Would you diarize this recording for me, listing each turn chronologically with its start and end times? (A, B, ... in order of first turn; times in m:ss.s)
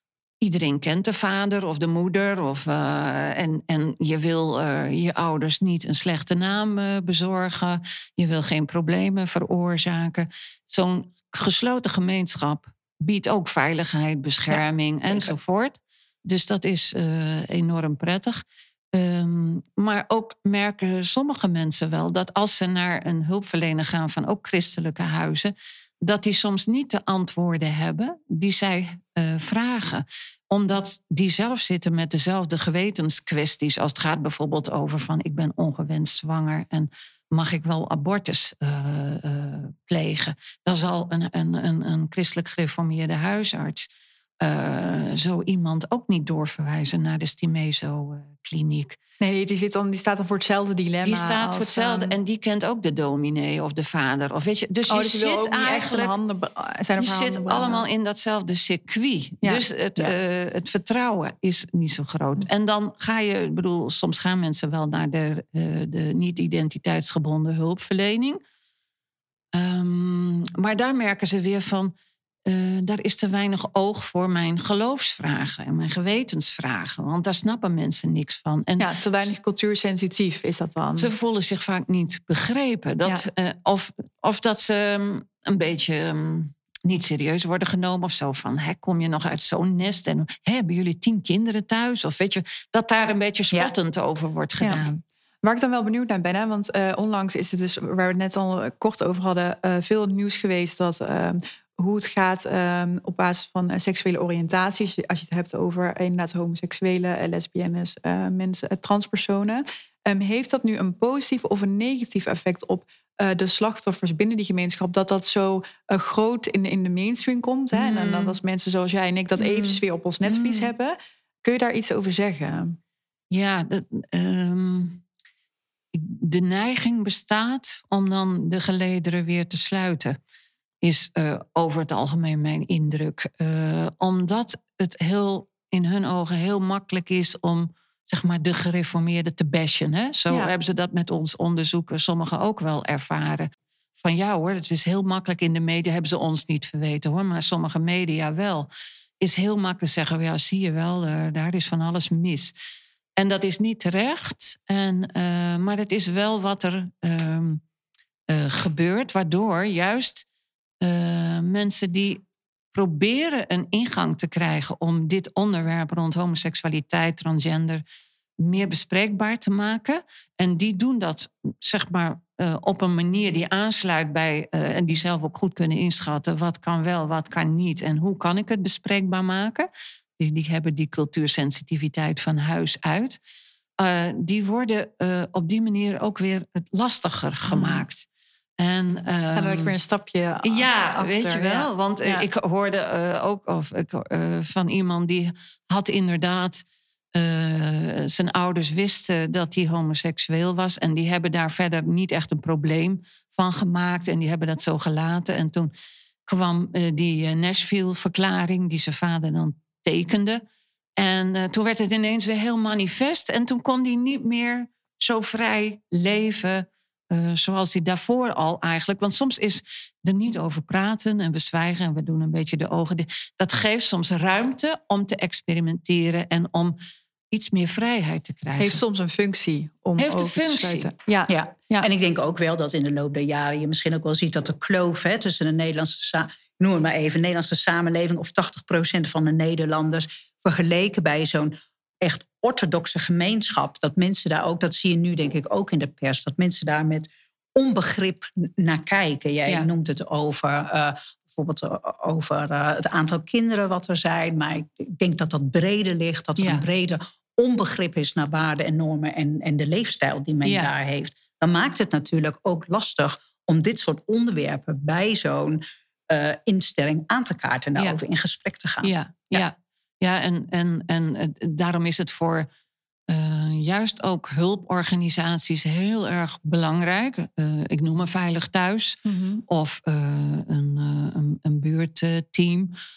0:00.4-0:18.4 A
0:18.9-0:43.9 A
0:44.4-0:49.0 A
0:49.2-0:52.1 B
0:51.0-0:56.1 A
0:54.9-0:57.8 B
0:57.0-1:08.4 A
0:59.4-1:00.1 B
1:09.5-1:11.9 A
1:12.4-1:19.2 A
1:18.8-1:21.1 B
1:21.0-1:35.0 A
1:34.6-1:34.8 B
1:35.4-2:02.8 B
1:57.7-1:58.4 A
1:59.4-2:00.7 A
2:03.3-2:05.0 A
2:05.9-2:10.2 A
2:10.8-2:28.7 A
2:29.2-2:32.5 A
2:33.2-2:37.6 A
2:38.3-2:40.2 A
2:40.8-2:47.8 A
2:48.4-2:59.7 A
3:00.2-3:03.2 A
3:03.8-3:08.0 A
3:07.5-3:07.8 B
3:08.6-3:09.7 A
3:09.3-3:12.2 B
3:10.4-3:25.7 A
3:26.3-3:30.4 A
3:31.0-3:46.8 A
3:47.3-3:48.8 A
3:48.6-3:51.9 B
3:50.0-3:50.9 A
3:51.3-4:28.9 C
4:16.4-4:16.6 A
4:20.4-4:20.7 A
4:28.8-4:32.5 A
4:33.1-4:42.7 A
4:39.0-4:39.4 B